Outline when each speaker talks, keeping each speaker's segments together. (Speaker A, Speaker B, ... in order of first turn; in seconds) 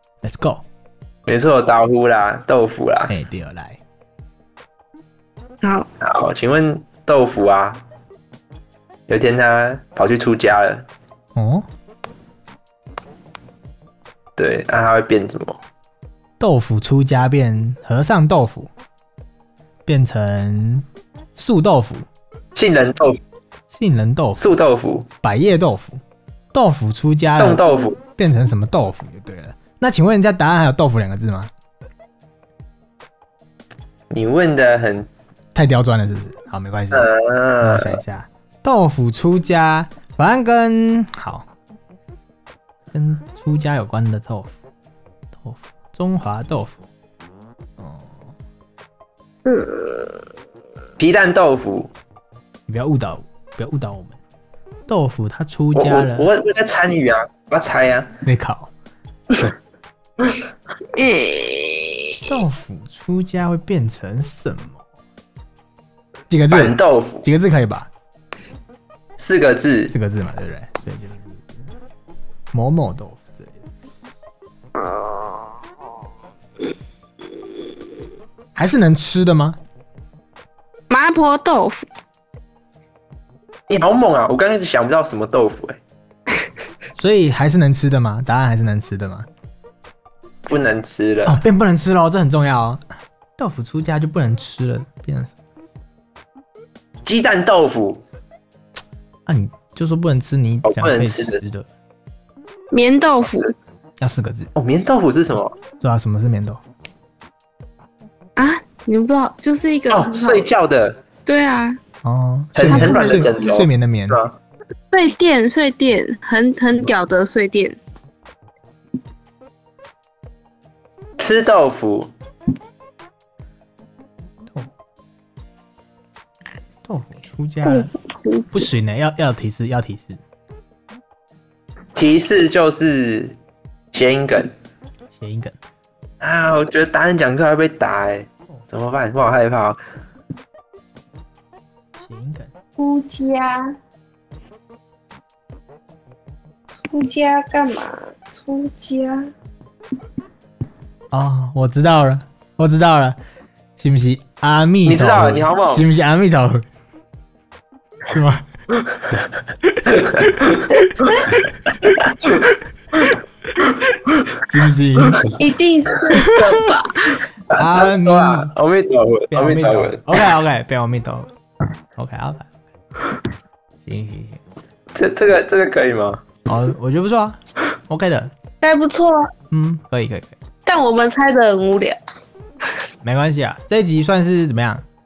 Speaker A: 0.2-0.6, 3.1-3.8, 11.3-11.7, 16.4-18.7, 19.9-20.8, 21.4-22.1, 23.7-24.4, 25.2-26.0, 26.5-27.6, 28.1-31.5, 35.5-41.5, 42.9-44.5, 45.3-46.8, 47.8-48.3, 52.7-54.2, 54.9-56.3, 58.2-58.7, 62.3-64.8, 66.3-67.9, 69.9-71.5, 72.5-73.5, 78.5-79.6, 87.0-89.3, 91.2-92.8, 93.4-95.3, 99.2-101.7, 104.0-104.5, 105.8-106.6, 112.0-114.2, 126.8-127.9, 128.5-130.2, 135.1-135.6, 142.0-142.5, 151.1-153.2, 153.8-156.6, 158.1-158.5, 159.8-161.4, 164.4-165.2, 167.5-168.5, 169.3-171.3, 171.9-172.5, 173.8-174.4, 176.4-178.3, 179.5-180.3, 183.0-184.8
Speaker B: 1.2-3.1, 6.0-7.8, 9.1-10.9, 14.4-15.6, 22.5-23.2, 24.4-25.1, 27.4-28.0, 34.1-35.1, 36.9-38.0, 51.0-51.9, 55.7-58.1, 66.5-67.3, 69.2-69.9, 83.7-85.8, 90.5-91.4, 97.0-98.0, 100.6-101.4, 104.5-105.6, 109.9-111.0, 112.5-114.3, 121.2-122.1, 131.9-133.3, 133.9-134.5, 136.2-139.8, 154.8-155.8, 167.5-170.2, 174.9-176.2
Speaker C: 5.6-5.9, 49.5-50.2, 61.0-62.0, 74.8-75.4, 80.9-81.9, 102.7-103.5, 108.4-110.4, 111.2-111.8, 112.7-113.3, 114.9-117.8, 127.6-128.5, 142.8-143.6, 146.8-149.2, 165.4-167.2, 178.6-179.3, 180.7-182.0